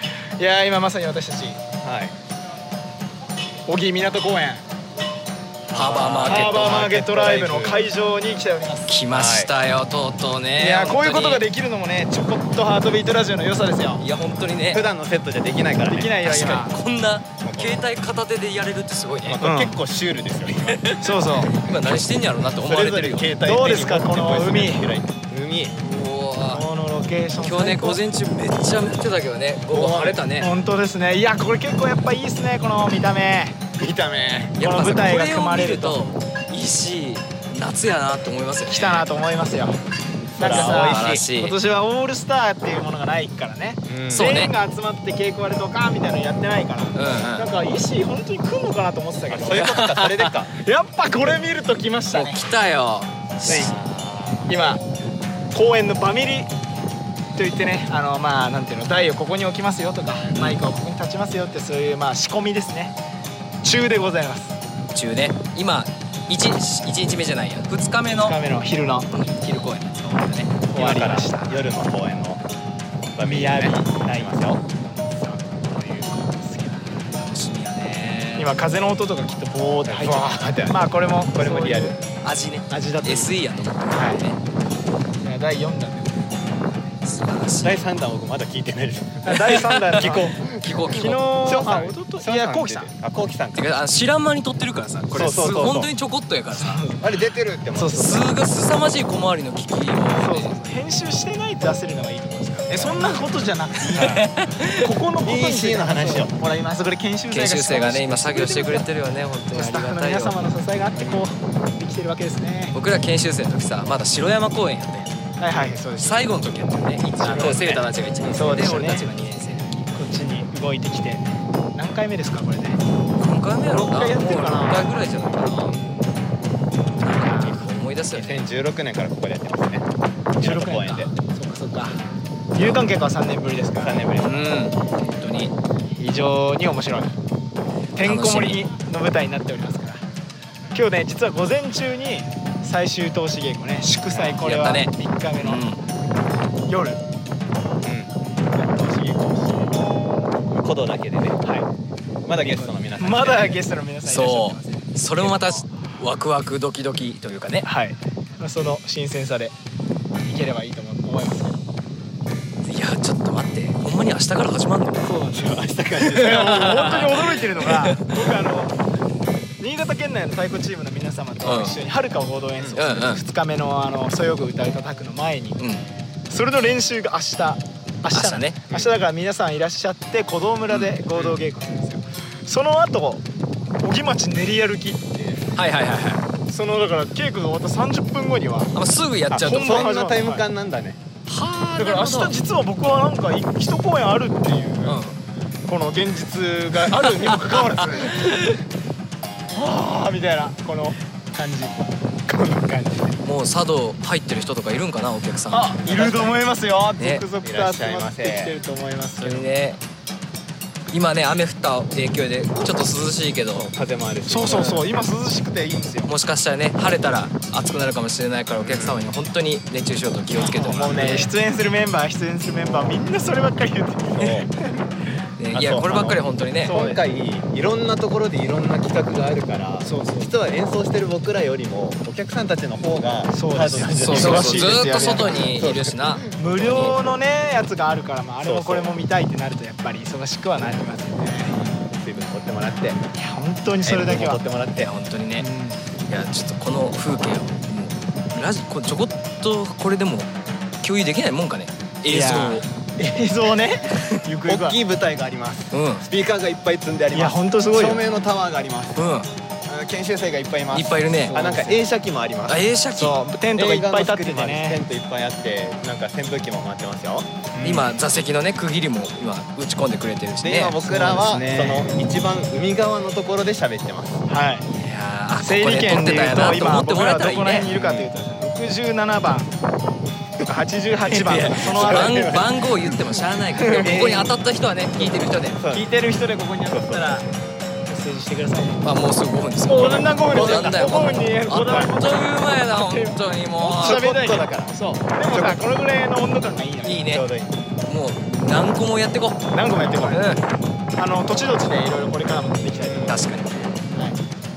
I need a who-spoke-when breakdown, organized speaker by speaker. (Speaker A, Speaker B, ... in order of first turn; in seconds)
Speaker A: 0.4-1.6, 3.6-4.6, 6.2-8.9, 10.6-14.0, 15.8-16.8, 19.4-19.8, 21.0-21.6, 23.4-24.9, 26.5-28.0, 30.4-33.6, 34.6-36.0, 38.7-39.8, 40.4-49.9, 50.5-52.5, 54.5-54.8, 55.5-56.5, 57.3-62.9, 63.6-64.6, 68.2-69.1, 70.7-71.6, 73.2-73.9, 74.9-77.0, 78.3-82.0, 82.7-84.2, 85.2-86.7, 89.2-90.3, 90.9-92.9, 96.5-97.0, 100.2-108.9, 109.5-112.8, 115.4-116.4, 117.2-117.5, 118.2-119.1, 119.9-122.8, 123.6-126.2, 127.1-127.7, 130.4-132.0, 132.5-134.3, 136.0-137.1, 137.9-140.0, 140.7-145.7, 146.7-147.0, 148.5-149.7, 152.4-155.7, 157.6-159.5, 160.2-161.6, 165.0-168.8, 169.6-175.6, 176.3-183.2, 183.8-185.4, 186.5-188.7, 189.4-190.4, 191.8-195.0, 195.6-198.2, 199.5-203.2, 205.5-209.6, 214.3-216.1, 220.3-224.9, 226.6-227.0, 229.8-230.3, 233.3-235.5, 236.3-241.5, 243.1-244.4, 245.4-245.8, 252.0-254.8, 257.1-258.0, 261.3-261.8, 262.9-264.8, 267.5-267.9, 270.9-271.9, 274.3-274.6, 275.4-279.5, 280.4-282.3, 283.5-283.9, 285.7-287.3, 287.9-288.8, 289.6-297.0, 299.5-300.3, 301.0-303.2, 303.9-304.2
Speaker B: 1.8-2.1, 5.7-7.8, 9.1-9.5, 14.7-16.2, 17.4-17.8, 19.2-20.8, 22.6-25.8, 29.7-30.2, 33.8-34.6, 40.4-41.2, 43.9-44.3, 49.3-50.5, 53.4-54.5, 70.7-72.4, 73.2-74.6, 79.8-80.8, 81.3-82.0, 87.6-93.7, 95.1-95.9, 97.0-98.2, 105.2-106.4, 110.9-111.3, 117.2-117.9, 128.1-131.1, 133.8-134.3, 144.1-144.4, 147.8-148.1, 150.5-151.4, 152.2-153.7, 165.3-166.8, 189.3-191.0, 205.8-206.4, 207.4-208.6, 213.5-214.8, 218.6-219.1, 220.4-221.3, 224.2-224.5, 225.5-237.2, 238.4-238.9, 241.5-243.0, 243.8-244.9, 254.4-259.0, 259.7-262.6, 263.5-267.4, 270.4-274.2, 277.7-278.1, 281.6-282.7, 283.8-284.4, 285.0-285.9, 286.7-287.1, 293.8-294.7, 295.3-295.6, 297.1-297.5, 302.7-303.2
Speaker C: 5.7-6.9, 8.9-11.4, 14.0-14.8, 16.2-19.4, 20.5-23.3, 25.8-26.6, 27.4-30.5, 34.6-39.1, 40.5-41.5, 44.1-44.5, 46.9-47.5, 49.5-50.3, 52.1-53.8, 64.9-68.4, 69.1-70.6, 77.1-78.6, 82.1-84.4, 87.0-87.9, 89.3-91.2, 93.5-96.8, 97.8-100.6, 102.8-103.0, 104.0-104.9, 107.3-110.4, 112.7-115.2, 116.0-119.7, 123.2-125.8, 127.0-128.5, 134.2-135.5, 138.0-138.6, 144.4-145.8, 154.0-157.7, 162.7-165.1, 166.0-168.2, 171.4-171.7, 172.8-173.2, 178.1-178.6, 185.5-186.2, 188.7-189.9, 191.3-192.3, 194.8-195.2, 197.0-198.6, 203.2-205.8, 207.0-207.2, 209.2-209.8, 210.9-213.7, 214.5-214.8, 216.1-221.3, 225.4-226.8, 234.1-236.9, 244.8-245.4, 246.1-250.3, 250.8-252.7, 255.7-256.0, 258.9-259.3, 260.7-261.4, 262.5-263.2, 267.6-271.0, 274.8-277.7, 281.0-285.6, 288.8-294.0, 296.8-297.2, 297.9-299.4, 300.0-300.4, 303.1-303.7